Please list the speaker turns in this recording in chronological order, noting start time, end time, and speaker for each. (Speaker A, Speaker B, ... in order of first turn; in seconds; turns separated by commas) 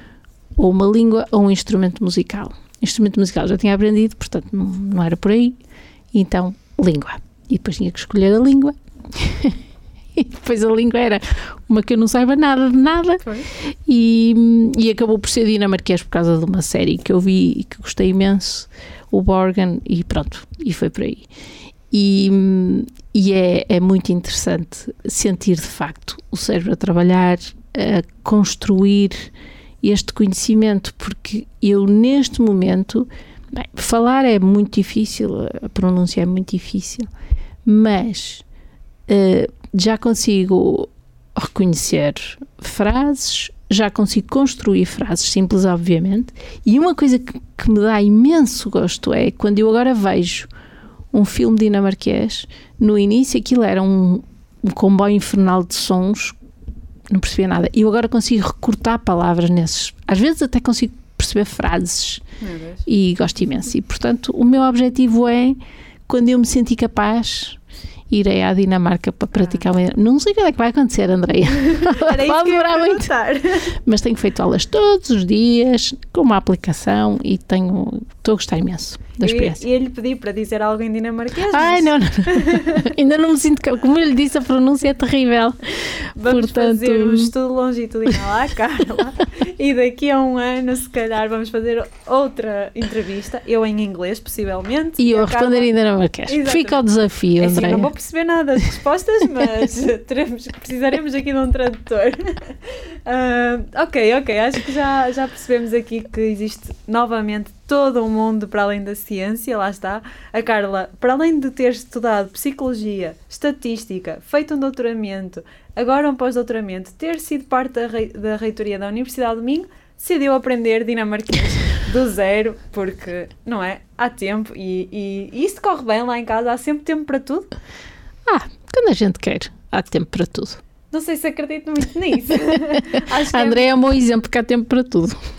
Speaker A: 0.6-5.6, Speaker A: 6.1-9.6, Speaker A: 10.2-21.3, Speaker B: 13.2-13.5, Speaker A: 21.9-29.3, Speaker A: 29.8-37.1, Speaker A: 37.6-38.4, Speaker A: 39.1-50.5, Speaker A: 51.1-56.4, Speaker A: 57.1-62.2, Speaker B: 62.4-62.9, Speaker A: 62.9-67.6, Speaker A: 68.1-73.1, Speaker B: 69.3-69.6, Speaker B: 71.6-73.7, Speaker A: 73.8-79.6, Speaker B: 79.2-82.9, Speaker A: 81.5-87.3, Speaker B: 86.2-95.7, Speaker A: 95.0-97.9, Speaker B: 96.3-96.8, Speaker B: 97.4-102.3, Speaker B: 103.1-127.5, Speaker A: 128.3-130.6, Speaker B: 130.9-133.7, Speaker A: 132.9-135.2